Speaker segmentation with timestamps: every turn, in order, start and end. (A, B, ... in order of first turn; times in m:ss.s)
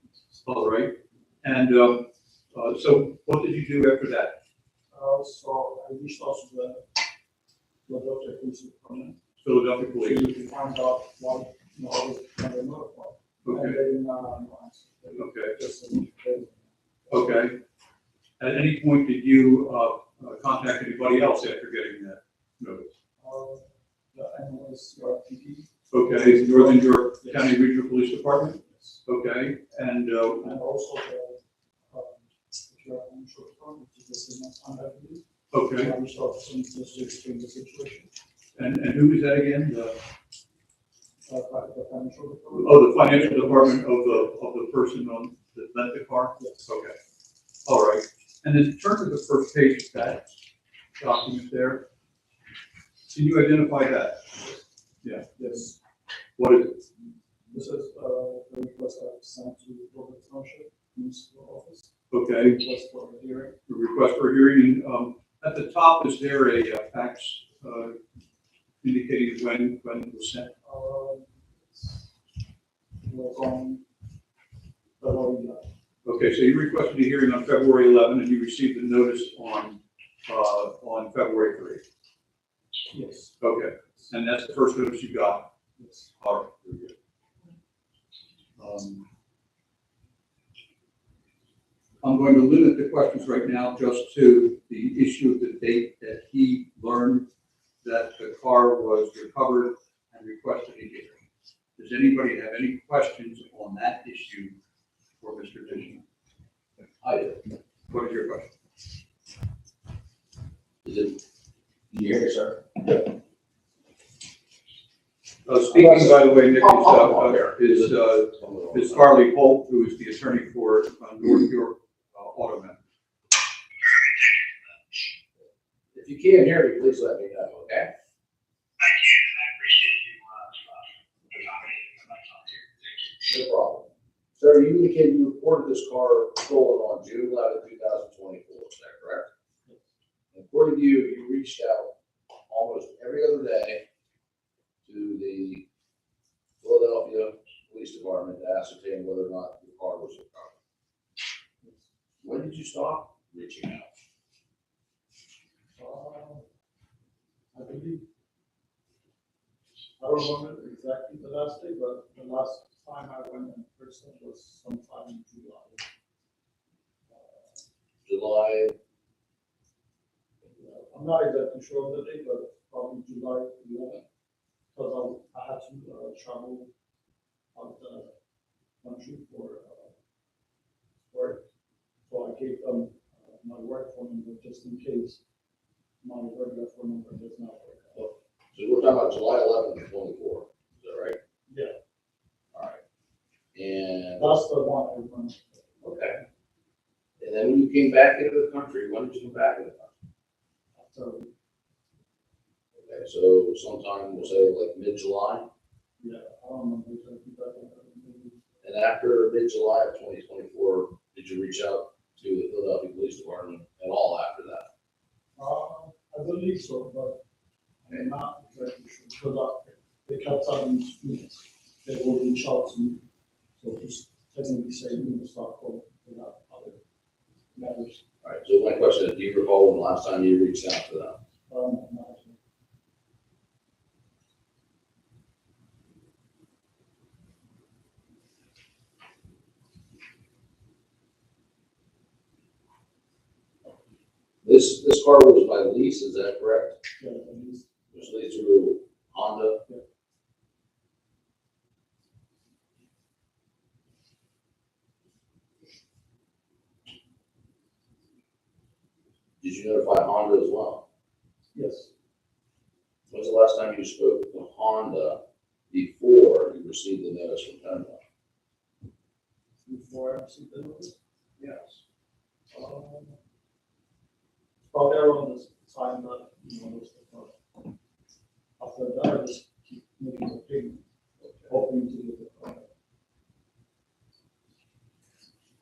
0:00.4-0:04.4 A
0:04.9-0:06.8 B
0:07.9-0:09.2 B
0:09.4-0:10.3 A
0:10.0-0:17.1 B
0:13.4-0:13.8 A
0:15.2-0:15.6 A
0:17.1-0:17.6 A
0:18.4-0:22.9 A
0:23.2-0:27.5 B
0:25.9-0:30.5 A
0:28.6-0:29.0 B
0:30.4-0:35.2 B
0:35.5-0:35.9 A
0:35.8-0:38.1 B
0:38.6-0:40.0 A
0:41.3-0:44.3 B
0:42.6-0:47.0 A
0:47.6-0:50.2 A
0:51.0-0:51.8 A
0:53.1-0:54.4 A
0:55.0-0:55.4 A
0:55.4-0:55.8 B
0:56.4-0:56.8 A
0:57.5-1:01.9 B
1:02.1-1:02.6 A
1:02.4-1:03.6 B
1:03.7-1:08.0 A
1:08.8-1:10.5 A
1:10.6-1:12.0 B
1:13.0-1:13.8 B
1:15.0-1:15.7 B
1:16.0-1:21.8 A
1:22.9-1:23.3 B
1:23.4-1:25.4 A
1:25.8-1:26.1 B
1:26.2-1:26.9 A
1:28.6-1:29.0 A
1:32.0-1:37.2 A
1:37.8-1:41.2 A
1:41.8-1:44.6 A
1:45.2-1:46.0 A
1:47.0-1:47.4 C
1:47.9-1:48.5 A
1:50.8-1:51.2 C
1:51.9-1:52.6 C
1:55.5-2:02.8 A
1:55.7-1:59.1 C
2:03.9-2:04.5 D
2:05.9-2:07.9 C
2:08.8-2:10.8 D
2:11.3-2:13.1 D
2:13.3-2:19.3 C
2:20.3-2:21.9 C
2:22.5-2:23.8 C
2:24.8-2:25.6 C
2:26.6-2:30.6 C
2:32.2-2:33.9 C
2:35.8-2:36.4 B
2:37.5-2:38.0 B
2:40.0-2:45.8 B
2:47.1-2:47.4 B
2:48.0-2:48.8 C
2:50.6-2:54.0 B
2:54.7-2:56.7 B
2:57.6-2:58.1 B
2:58.8-2:59.9 B
3:01.1-3:01.4 B
3:02.1-3:05.2 B
3:06.0-3:08.0 B
3:08.0-3:11.2 C
3:11.5-3:11.8 B
3:12.5-3:12.8 C
3:13.5-3:14.3 C
3:14.2-3:15.6 B
3:15.8-3:16.2 C
3:17.2-3:20.0 C
3:20.8-3:21.3 B
3:22.8-3:25.5 C
3:26.0-3:28.4 B
3:28.6-3:34.7 C
3:35.4-3:37.2 B
3:37.8-3:43.0 B
3:43.6-3:46.8 B
3:47.6-3:48.0 B
3:48.2-3:51.2 C
3:51.5-3:52.4 B
4:04.4-4:06.8 C
4:07.0-4:07.7 B
4:07.9-4:09.6 C
4:19.4-4:20.8 C
4:21.6-4:21.9 B
4:23.1-4:25.2 C
4:25.7-4:28.0 C
4:29.7-4:31.0 B
4:31.4-4:31.8 C
4:32.5-4:33.2 B
4:34.7-4:37.6 B
4:38.6-4:40.8 B
4:41.5-4:42.7 B